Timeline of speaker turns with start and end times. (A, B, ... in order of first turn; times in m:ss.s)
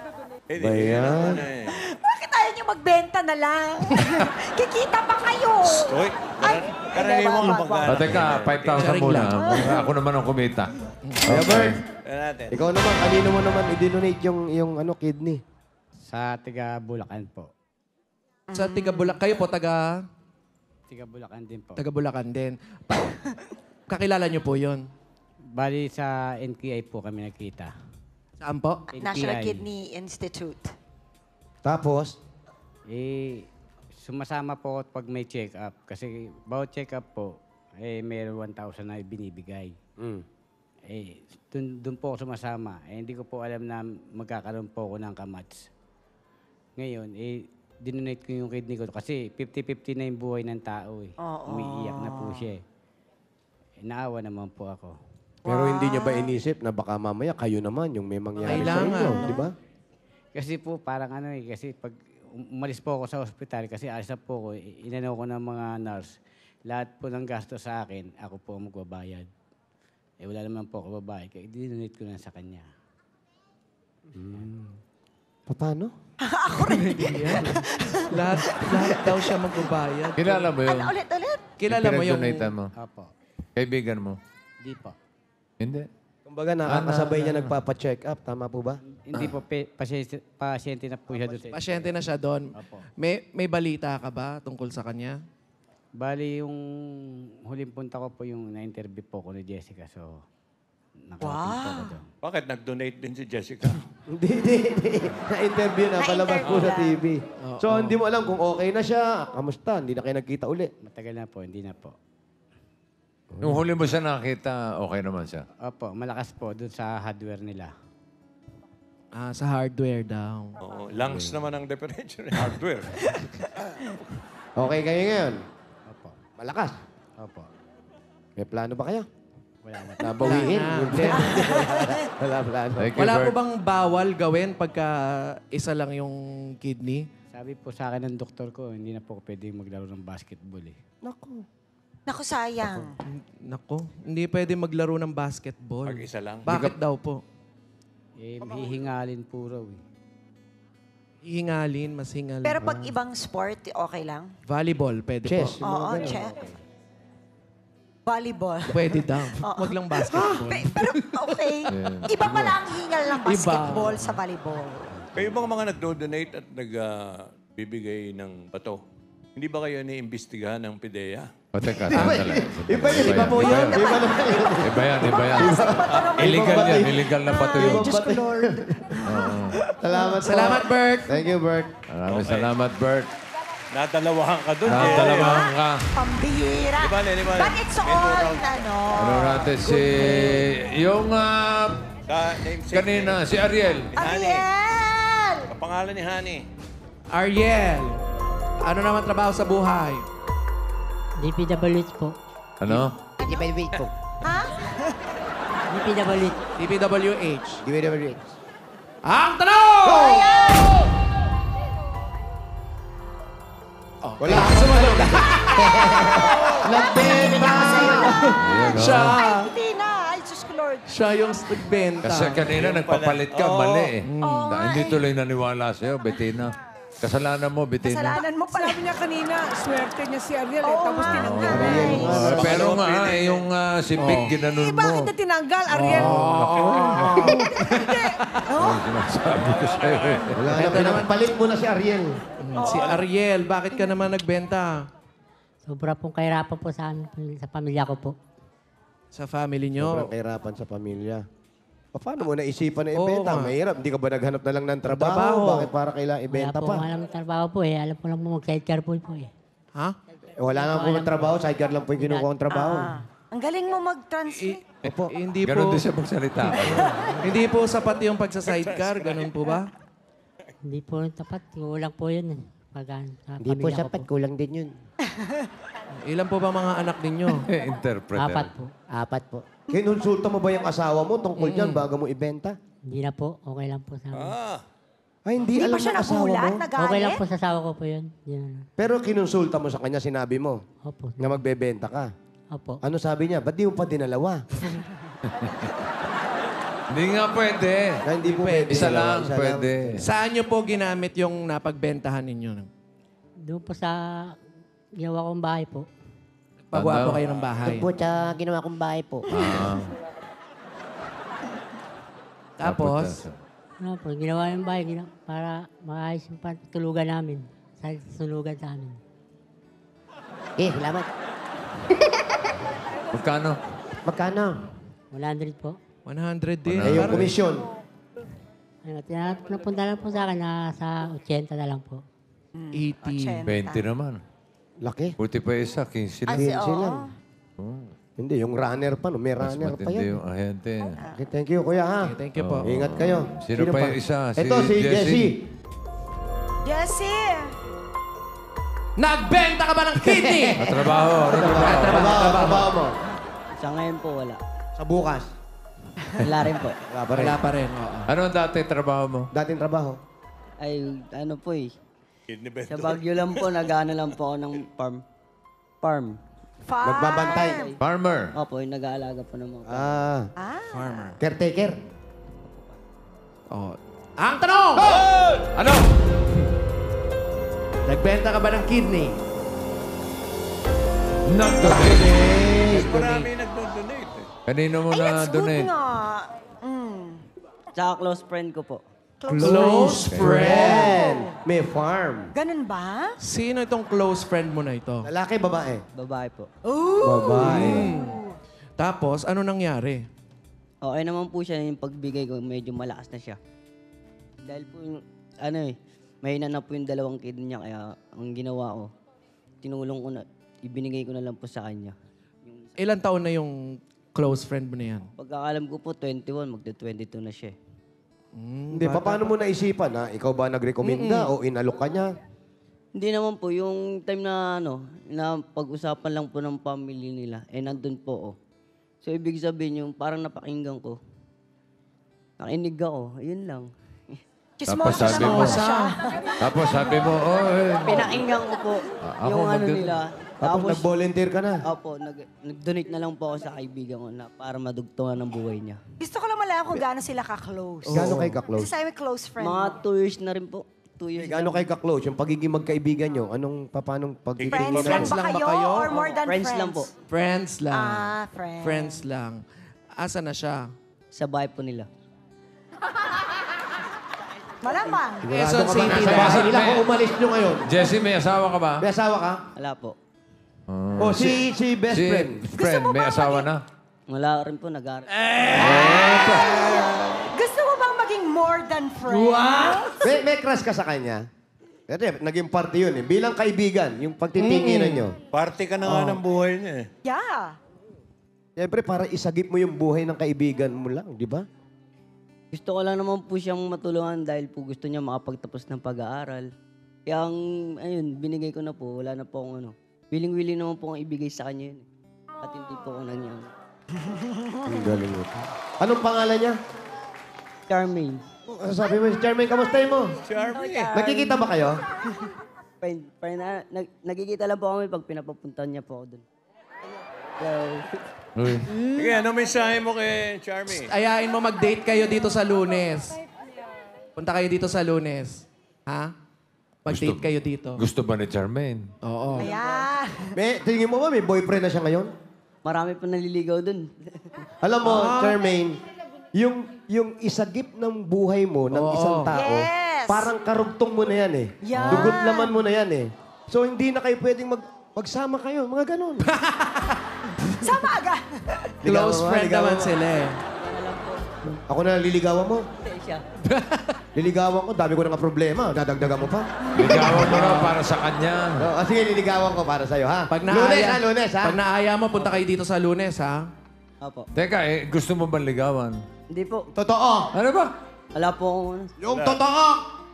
0:00.5-0:01.7 A
0:00.6-0:01.4 B
0:01.7-0:08.4 C
0:05.7-0:08.9 A
0:07.8-0:10.7 D
0:08.7-0:09.5 E
0:09.4-0:09.8 C
0:11.2-0:11.8 D
0:11.3-0:11.8 B
0:12.0-0:12.7 A
0:12.5-0:15.4 B
0:16.0-0:17.5 F
0:18.5-0:19.2 C
0:18.5-0:19.8 E
0:20.9-0:21.8 F
0:21.8-0:23.1 E
0:23.9-0:24.8 E
0:25.6-0:27.7 F
0:28.4-0:29.3 E
0:28.9-0:29.6 F
0:29.0-0:30.7 C
0:31.6-0:32.1 B
0:32.9-0:33.5 F
0:34.0-0:39.7 F
0:40.0-0:40.2 B
0:40.9-0:45.7 F
0:46.8-0:52.6 F
0:51.2-0:52.5 C
0:53.8-0:54.9 F
0:55.4-0:56.3 C
0:55.4-0:59.5 B
0:58.4-0:59.3 E
0:59.0-0:59.4 C
1:00.3-1:02.0 F
1:02.5-1:06.1 F
1:06.7-1:09.3 F
1:10.2-1:12.7 F
1:14.1-1:14.7 B
1:15.5-1:15.9 B
1:16.2-1:19.2 C
1:16.7-1:20.5 E
1:20.2-1:20.9 D
1:20.6-1:21.4 C
1:21.6-1:22.5 E
1:21.7-1:22.7 D
1:22.8-1:23.1 F
1:23.6-1:24.2 D
1:24.6-1:24.9 F
1:25.6-1:25.8 D
1:26.2-1:29.3 B
1:26.7-1:27.5 D
1:29.0-1:31.9 F
1:31.5-1:35.2 E
1:32.5-1:32.8 F
1:36.0-1:36.6 F
1:37.5-1:40.2 F
1:41.1-1:42.1 F
1:41.2-1:42.0 C
1:42.2-1:43.8 A
1:44.1-1:50.7 B
1:46.0-1:47.0 C
1:47.4-1:48.0 E
1:50.8-1:51.9 F
1:53.3-1:53.6 B
1:53.4-1:55.4 D
1:55.6-1:57.7 F
1:59.1-2:00.6 E
2:00.6-2:03.0 A
2:01.1-2:01.4 B
2:04.6-2:05.4 B
2:05.9-2:06.2 F
2:06.4-2:06.7 B
2:07.2-2:07.5 F
2:08.4-2:09.0 B
2:09.6-2:10.5 F
2:10.0-2:12.9 B
2:10.2-2:11.4 E
2:11.3-2:11.9 C
2:12.8-2:13.3 D
2:13.0-2:14.9 E
2:15.5-2:17.0 E
2:17.3-2:20.8 F
2:21.0-2:21.4 B
2:22.1-2:22.9 C
2:23.1-2:27.2 E
2:25.8-2:26.5 A
2:28.2-2:29.8 F
2:31.2-2:32.8 E
2:32.4-2:34.3 C
2:34.5-2:35.6 E
2:35.2-2:36.3 B
2:35.6-2:36.4 C
2:38.0-2:44.9 C
2:38.7-2:41.1 E
2:41.7-2:42.6 D
2:43.2-2:44.1 E
2:45.1-2:48.8 A
2:49.4-2:51.3 A
2:51.5-2:53.8 D
2:51.9-2:57.0 B
2:51.9-2:52.3 E
2:52.8-2:53.8 E
2:53.8-2:54.5 C
2:54.6-2:55.7 D
2:55.0-3:00.5 C
2:55.9-2:56.2 A
2:56.2-2:58.0 D
2:57.5-2:59.0 B
2:59.0-2:59.6 D
2:59.8-3:01.7 B
3:00.2-3:01.1 E
3:01.9-3:03.1 D
3:02.1-3:02.5 A
3:03.7-3:05.5 A
3:04.6-3:05.8 D
3:04.6-3:09.8 C
3:06.8-3:08.7 A
3:09.0-3:11.8 D
3:09.6-3:10.4 E
3:12.1-3:14.4 A
3:12.7-3:13.9 D
3:14.0-3:15.4 C
3:15.5-3:16.4 A
3:17.1-3:18.0 E
3:18.6-3:20.0 E
3:21.2-3:22.1 G
3:22.6-3:23.0 D
3:23.2-3:23.9 H
3:24.2-3:25.0 C
3:25.7-3:26.4 G
3:26.6-3:27.6 E
3:27.6-3:28.3 B
3:29.0-3:30.2 E
3:29.8-3:30.8 C
3:34.0-3:35.6 E
3:34.2-3:38.2 B
3:35.6-3:38.3 C
3:37.8-3:39.4 E
3:38.4-3:39.2 D
3:38.9-3:40.9 C
3:40.8-3:42.5 E
3:42.0-3:48.2 D
3:42.5-3:43.9 A
3:44.0-3:44.6 E
3:44.2-3:45.0 C
3:47.8-3:48.9 C
3:48.5-3:52.1 I
3:50.6-3:52.4 C
3:51.1-3:55.1 D
3:51.5-3:52.8 B
3:52.3-3:53.5 A
3:54.0-3:54.3 E
3:54.5-3:57.7 I
3:55.7-3:58.4 E
3:55.9-3:57.2 D
3:57.3-3:58.8 C
3:58.5-4:00.4 D
3:59.3-4:00.4 A
4:00.4-4:02.1 B
4:00.5-4:01.1 E
4:02.4-4:04.7 E
4:02.6-4:03.0 C
4:02.6-4:03.0 A
4:05.6-4:08.1 G
4:09.1-4:10.1 E
4:09.8-4:11.2 B
4:11.9-4:16.8 B
4:12.9-4:13.5 E
4:14.9-4:15.7 E
4:16.3-4:19.3 G
4:20.4-4:22.3 G
4:20.4-4:22.9 B
4:22.5-4:24.6 C
4:24.3-4:25.8 E
4:24.8-4:25.1 B
4:25.4-4:26.8 D
4:26.5-4:27.2 C
4:27.2-4:29.7 E
4:28.5-4:29.5 A
4:30.6-4:34.1 G
4:33.4-4:34.7 H
4:35.2-4:35.4 C
4:36.0-4:37.4 E
4:37.5-4:38.5 D
4:38.2-4:38.7 G
4:38.9-4:39.5 H
4:39.7-4:42.6 B
4:41.4-4:41.8 E
4:42.9-4:44.4 G
4:44.1-4:44.6 A
4:45.2-4:46.6 B
4:45.5-4:47.2 C
4:46.8-4:48.6 G
4:48.8-4:50.6 B
4:50.8-4:51.4 G
4:51.2-4:52.1 B
4:52.5-4:52.8 G
4:52.8-4:54.4 B
4:55.2-4:55.6 D
4:56.9-4:58.0 D
4:58.0-5:00.0 B
4:58.3-4:59.1 E
4:58.7-5:00.0 D
5:00.0-5:02.7 E
5:03.5-5:04.3 G
5:05.0-5:05.9 G
5:06.7-5:07.9 E
5:06.7-5:07.2 D
5:07.6-5:09.3 H
5:09.3-5:09.9 D
5:12.6-5:13.2 E
5:12.6-5:13.4 D
5:13.8-5:19.0 G
5:20.6-5:21.0 H
5:23.1-5:23.6 D
5:24.1-5:24.5 H
5:25.1-5:25.8 G
5:26.1-5:27.3 E
5:26.7-5:27.3 D
5:26.8-5:27.7 B
5:28.8-5:32.0 G
5:32.6-5:33.8 C
5:32.7-5:33.4 E
5:33.4-5:34.2 D
5:34.8-5:35.1 B
5:35.2-5:36.5 D
5:36.3-5:37.1 C
5:36.3-5:37.0 B
5:37.6-5:37.9 D
5:38.2-5:40.2 B
5:39.4-5:41.0 D
5:41.1-5:42.1 B
5:42.0-5:42.8 E
5:42.4-5:45.3 D
5:42.6-5:45.4 B
5:46.6-5:47.5 C
5:49.0-5:50.6 E
5:50.0-5:52.9 B
5:50.6-5:52.2 D
5:51.4-5:52.7 E
5:53.6-5:54.4 J
5:54.8-5:55.3 B
5:56.2-5:56.8 J
5:56.9-5:57.4 B
5:57.1-5:58.1 E
5:58.1-5:59.3 D
5:59.3-6:00.0 B
6:00.6-6:01.7 J
6:02.3-6:03.6 A
6:02.7-6:05.0 J
6:05.8-6:06.2 J
6:06.6-6:07.8 C
6:06.8-6:07.6 B
6:07.3-6:07.8 J
6:07.8-6:08.3 D
6:08.3-6:09.9 J
6:09.7-6:10.3 B
6:10.4-6:11.0 C
6:10.7-6:11.2 E
6:11.2-6:11.7 B
6:13.5-6:15.0 E
6:14.8-6:15.0 B
6:15.5-6:15.8 D
6:17.9-6:19.2 E
6:21.3-6:22.2 D
6:21.6-6:23.0 B
6:22.7-6:23.3 E
6:22.7-6:24.3 A
6:24.5-6:25.7 D
6:24.9-6:27.2 C
6:27.7-6:28.8 J
6:29.2-6:31.4 C
6:29.3-6:32.3 B
6:29.4-6:31.0 E
6:32.3-6:33.2 C
6:33.2-6:35.1 E
6:35.0-6:35.8 B
6:35.9-6:36.5 J
6:36.6-6:38.2 C
6:37.0-6:37.9 B
6:37.4-6:38.2 E
6:38.8-6:40.0 E
6:40.8-6:43.4 J
6:44.4-6:48.9 J
6:49.6-6:52.7 J
6:52.8-6:53.5 E
6:54.1-6:55.1 E
6:55.2-6:57.5 J
6:58.4-6:59.3 E
6:58.7-7:02.1 B
7:00.8-7:01.3 E
7:02.9-7:08.3 J
7:09.0-7:11.0 J
7:12.4-7:13.7 J
7:14.6-7:16.3 C
7:14.7-7:15.6 D
7:15.0-7:15.7 E
7:16.4-7:18.2 D
7:17.8-7:20.8 J
7:19.0-7:20.0 D
7:20.4-7:21.6 B
7:21.6-7:25.8 J
7:26.0-7:29.8 C
7:27.8-7:28.4 E
7:27.9-7:28.7 B
7:29.4-7:31.6 J
7:31.2-7:35.2 B
7:34.4-7:34.7 A
7:34.5-7:36.9 C
7:34.6-7:36.0 E
7:35.9-7:36.9 J
7:37.1-7:38.1 E
7:37.7-7:39.0 C
7:38.6-7:39.4 E
7:40.0-7:40.6 E
7:41.1-7:41.9 J
7:44.6-7:45.2 C
7:45.2-7:47.6 B
7:45.3-7:46.6 E
7:45.8-7:46.8 D
7:47.7-7:48.8 D
7:48.8-7:49.4 B
7:49.6-7:49.9 J
7:50.7-7:51.4 D
7:51.0-7:52.4 B
7:51.9-7:53.6 D
7:52.5-7:53.5 C
7:54.1-7:55.1 J
7:55.3-7:56.3 E
7:55.6-7:56.4 D
7:55.6-7:56.5 B
7:55.8-8:00.0 C
7:59.1-7:59.9 E
8:00.0-8:01.2 B
8:01.9-8:05.2 B
8:04.5-8:04.9 E
8:05.3-8:06.9 A
8:05.8-8:06.2 B
8:07.0-8:07.6 C
8:08.6-8:11.4 B
8:12.5-8:16.5 J
8:17.1-8:21.8 J
8:22.4-8:23.5 J
8:24.6-8:26.6 B
8:27.7-8:28.2 J
8:28.5-8:30.1 B
8:30.2-8:31.0 A
8:30.4-8:31.2 C
8:30.9-8:31.8 B
8:32.8-8:36.2 J
8:37.4-8:37.9 J
8:38.4-8:38.7 D
8:38.7-8:39.1 J
8:39.0-8:40.9 A
8:40.7-8:43.2 E
8:44.2-8:46.1 E
8:46.8-8:47.8 E
8:46.9-8:48.8 D
8:49.0-8:49.5 E
8:49.4-8:49.8 J
8:49.4-8:50.3 C
8:50.3-8:52.1 B
8:52.6-8:53.9 J
8:54.6-8:55.8 B
8:54.8-8:55.4 E
8:56.4-9:06.3 B
8:58.7-8:59.3 E
8:59.3-9:00.3 C
9:01.7-9:02.5 C
9:06.3-9:07.0 E
9:07.6-9:08.7 C
9:08.8-9:10.0 B
9:08.8-9:10.4 E
9:10.6-9:11.2 J
9:11.7-9:12.6 B
9:12.8-9:13.2 J
9:13.5-9:13.8 E
9:14.1-9:16.5 B
9:16.6-9:17.3 C
9:16.7-9:18.7 D
9:16.8-9:17.8 E
9:18.6-9:21.6 B
9:20.3-9:23.4 E
9:24.0-9:24.3 J
9:24.3-9:26.0 D
9:26.3-9:26.7 J
9:26.7-9:27.3 B
9:27.3-9:27.7 D
9:28.1-9:28.9 J
9:29.0-9:29.8 B
9:29.0-9:29.4 A